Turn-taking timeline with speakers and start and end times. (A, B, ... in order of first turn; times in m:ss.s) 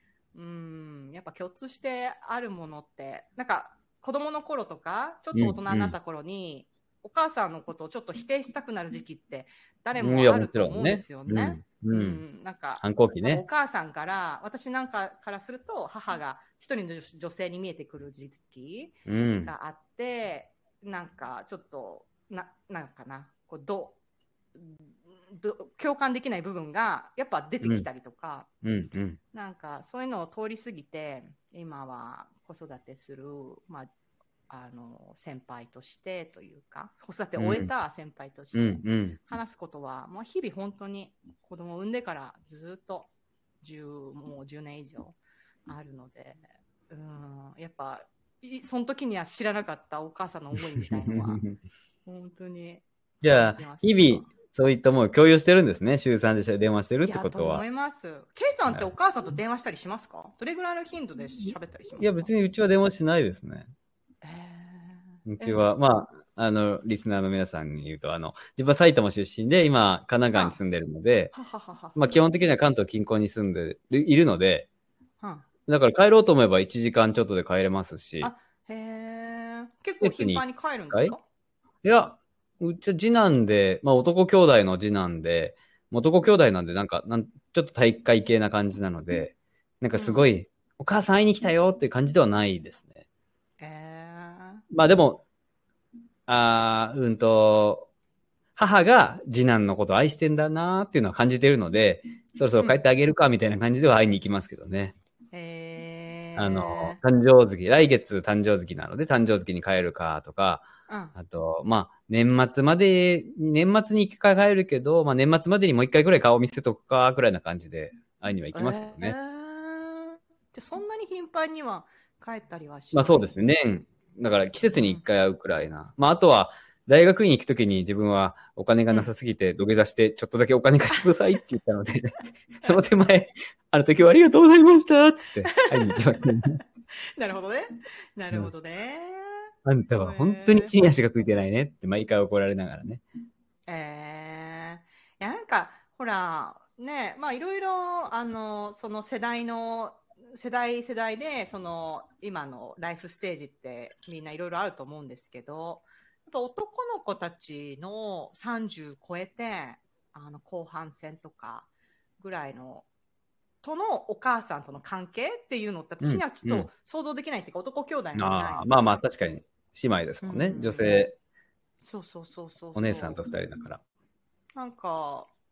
0:00.3-0:24.0 A
0:05.4-0:06.0 B
0:10.0-0:12.2 B
0:12.8-0:13.4 B
0:19.1-0:19.5 B
0:24.6-0:28.6 A
0:27.6-0:27.9 B
0:28.6-0:29.2 B
0:29.3-0:33.9 A
0:34.5-0:43.1 A
0:37.4-0:37.7 B
0:38.5-0:39.2 B
0:43.6-0:45.2 A
0:45.7-0:51.4 A
0:51.0-0:51.6 B
0:52.1-0:54.3 A
0:53.2-0:57.6 B
0:57.0-1:02.3 A
1:02.0-1:03.7 B
1:04.2-1:05.6 A
1:05.2-1:11.3 B
1:10.3-1:10.6 A
1:11.3-1:12.0 A
1:12.0-1:14.7 B
1:15.2-1:15.5 A
1:15.7-1:18.3 B
1:18.2-1:21.2 A
1:20.0-1:21.2 B
1:21.8-1:33.0 B
1:30.0-1:30.3 A
1:33.6-1:34.6 A
1:34.7-1:35.2 B
1:36.3-1:37.9 B
1:38.6-1:45.0 B
1:45.3-1:47.0 A
1:46.4-1:59.2 B
1:50.9-1:51.2 A
1:58.5-2:03.3 A
2:02.9-2:16.6 B
2:04.6-2:05.0 A
2:15.5-2:16.5 A
2:17.2-2:20.7 A
2:19.6-2:23.0 B
2:23.7-2:41.7 A
2:42.2-2:42.9 A
2:43.6-2:49.0 A
2:46.0-2:46.7 B
2:48.2-2:51.2 B
2:50.2-2:50.9 A
2:51.8-2:53.2 A
2:52.8-2:53.8 B
2:54.6-2:55.3 A